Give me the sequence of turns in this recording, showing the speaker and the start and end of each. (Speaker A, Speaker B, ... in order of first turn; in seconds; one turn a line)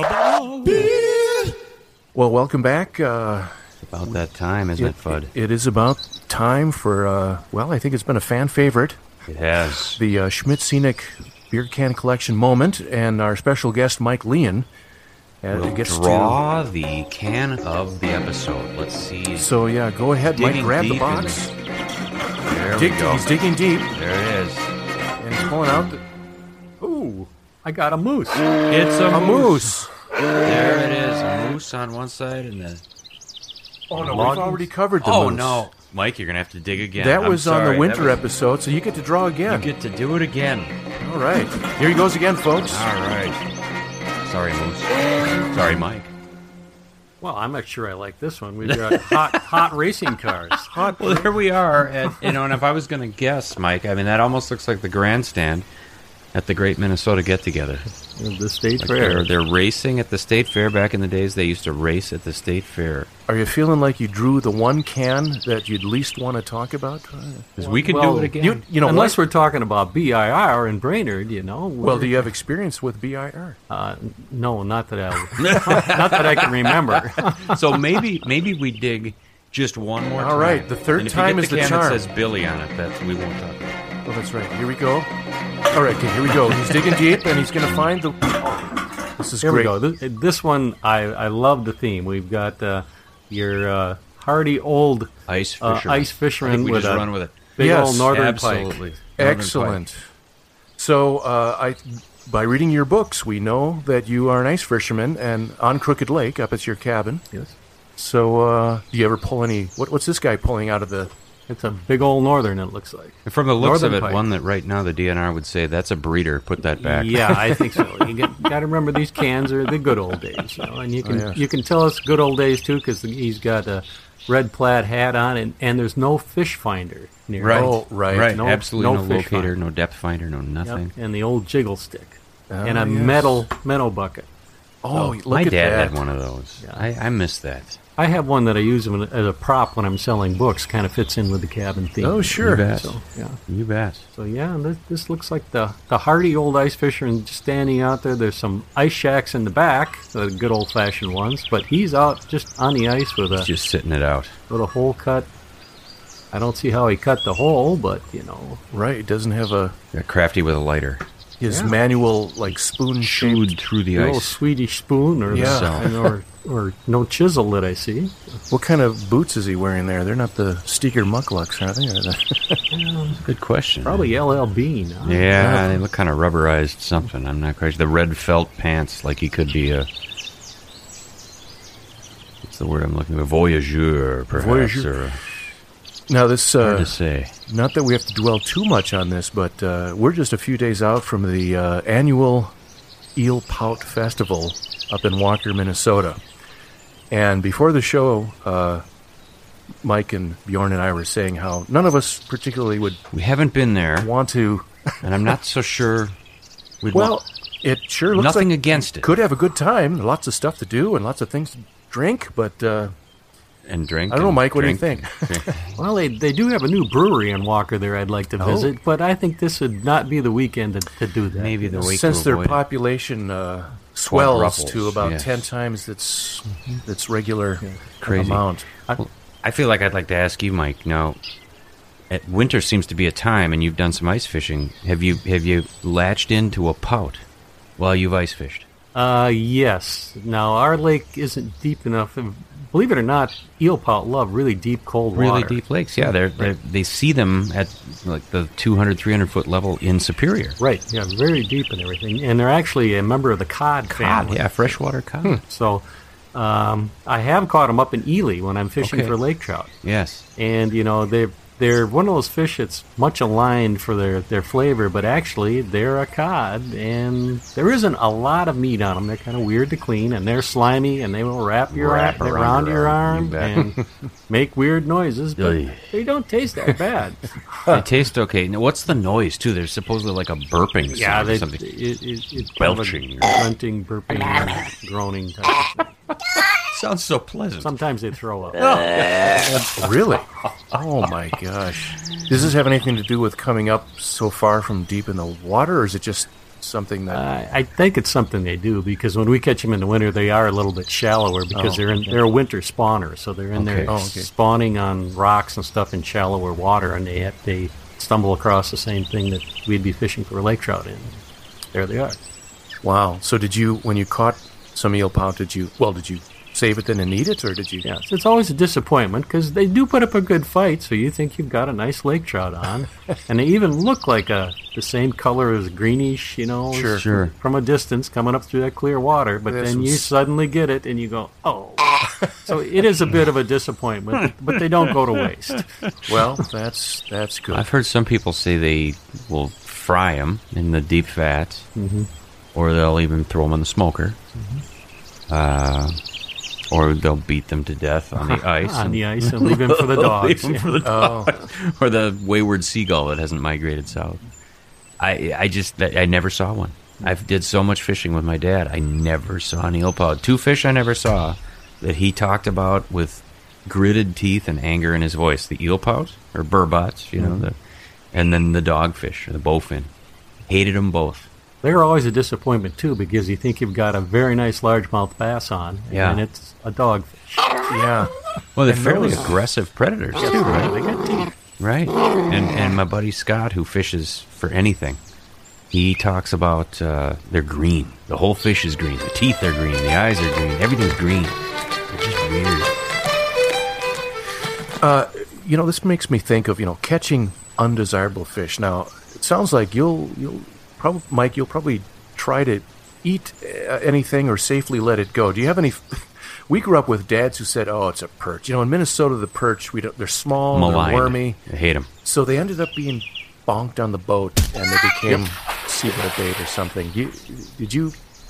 Speaker A: 2.1-4.2
Speaker B: 3.8-5.3
Speaker A: 4.8-9.0
Speaker B: 9.3-10.0
Speaker A: 9.9-14.7
Speaker A: 15.4-16.4
Speaker B: 15.5-19.5
Speaker A: 19.3-21.5
Speaker B: 20.3-21.4
Speaker B: 22.4-23.4
Speaker A: 22.7-23.9
Speaker B: 23.9-24.7
Speaker A: 25.2-26.0
Speaker C: 26.8-28.5
Speaker B: 28.7-29.7
Speaker A: 29.1-29.9
Speaker B: 30.4-32.8
Speaker A: 33.9-35.7
Speaker B: 33.9-38.2
Speaker A: 36.9-39.7
Speaker B: 39.5-40.8
Speaker A: 41.0-42.9
Speaker B: 42.7-43.4
Speaker B: 44.2-46.1
Speaker C: 47.2-50.7
Speaker B: 48.7-49.6
Speaker A: 50.7-51.4
Speaker B: 50.9-55.7
Speaker B: 56.3-57.9
Speaker C: 58.1-59.3
Speaker B: 58.8-63.1
Speaker A: 63.3-67.5
Speaker B: 67.6-68.3
Speaker C: 67.6-72.2
Speaker A: 68.4-69.2
Speaker A: 71.8-73.6
Speaker C: 73.7-77.5
Speaker B: 75.4-83.8
Speaker A: 80.2-82.0
Speaker A: 84.0-85.1
Speaker A: 85.7-89.7
Speaker C: 89.4-98.8
Speaker B: 95.3-97.5
Speaker A: 97.6-98.1
Speaker B: 98.1-99.8
Speaker A: 99.2-100.1
Speaker A: 100.8-107.2
Speaker A: 108.0-111.1
Speaker C: 111.5-114.2
Speaker B: 113.2-117.6
Speaker C: 116.8-129.6
Speaker A: 121.0-121.4
Speaker B: 127.4-130.9
Speaker A: 127.5-128.3
Speaker C: 130.6-134.3
Speaker A: 132.5-133.4
Speaker A: 134.8-136.0
Speaker B: 134.9-137.8
Speaker C: 136.6-136.8
Speaker C: 138.0-143.4
Speaker A: 142.0-142.7
Speaker B: 142.4-144.1
Speaker C: 144.1-153.5
Speaker B: 153.3-154.4
Speaker C: 154.5-155.3
Speaker C: 156.3-158.6
Speaker A: 158.7-159.8
Speaker B: 159.9-161.0
Speaker A: 161.4-163.5
Speaker C: 161.5-161.7
Speaker B: 163.0-164.4
Speaker C: 163.9-168.4
Speaker A: 165.3-165.9
Speaker B: 165.3-165.9
Speaker A: 168.5-172.6
Speaker C: 172.7-173.2
Speaker B: 173.2-174.1
Speaker C: 173.8-175.3
Speaker B: 175.0-179.9
Speaker A: 175.4-175.7
Speaker B: 182.4-185.2
Speaker A: 184.3-185.0
Speaker A: 186.1-186.9
Speaker B: 186.6-187.3
Speaker A: 187.5-192.5
Speaker A: 193.2-196.2
Speaker A: 197.1-198.8
Speaker A: 199.8-203.0
Speaker B: 203.1-204.1
Speaker A: 204.0-205.3
Speaker B: 205.0-206.2
Speaker B: 206.8-207.2
Speaker A: 206.9-212.9
Speaker B: 208.1-209.1
Speaker B: 213.7-215.8
Speaker A: 214.1-215.5
Speaker C: 215.8-221.9
Speaker B: 218.4-218.7
Speaker B: 221.3-222.6
Speaker A: 221.7-228.7
Speaker B: 224.1-225.4
Speaker B: 228.1-231.2
Speaker B: 232.1-237.2
Speaker B: 237.8-238.7
Speaker C: 238.9-245.6
Speaker B: 245.1-250.6
Speaker C: 250.6-254.5
Speaker B: 253.9-255.4
Speaker C: 255.4-259.7
Speaker B: 258.8-259.1
Speaker B: 259.8-260.2
Speaker C: 260.4-273.8
Speaker B: 271.7-273.7
Speaker C: 274.3-277.6
Speaker B: 275.4-275.9
Speaker B: 277.7-281.7
Speaker C: 280.9-285.9
Speaker B: 282.6-283.4
Speaker B: 286.7-287.7
Speaker C: 287.6-288.6
Speaker B: 288.6-289.7
Speaker A: 289.5-297.2
Speaker C: 297.1-311.2
Speaker A: 301.5-302.1
Speaker B: 303.5-303.9
Speaker A: 303.9-304.3
Speaker C: 311.7-312.2
Speaker A: 312.8-317.8
Speaker C: 317.8-335.7
Speaker A: 326.7-327.0
Speaker B: 326.9-327.3
Speaker A: 329.5-330.1
Speaker A: 336.1-337.6
Speaker B: 337.5-341.7
Speaker C: 341.8-342.1
Speaker B: 342.5-344.2
Speaker B: 345.3-346.0
Speaker B: 346.7-354.2
Speaker C: 348.3-350.7
Speaker A: 350.8-351.3
Speaker B: 355.0-367.6
Speaker B: 368.1-369.9
Speaker B: 370.5-371.3
Speaker C: 371.6-377.6
Speaker B: 375.9-376.2
Speaker A: 377.7-378.1
Speaker B: 378.6-380.7
Speaker A: 378.6-379.3
Speaker C: 380.2-381.3
Speaker B: 381.6-385.0
Speaker B: 385.7-392.8
Speaker A: 394.8-411.4
Speaker B: 410.5-411.9
Speaker A: 412.0-417.9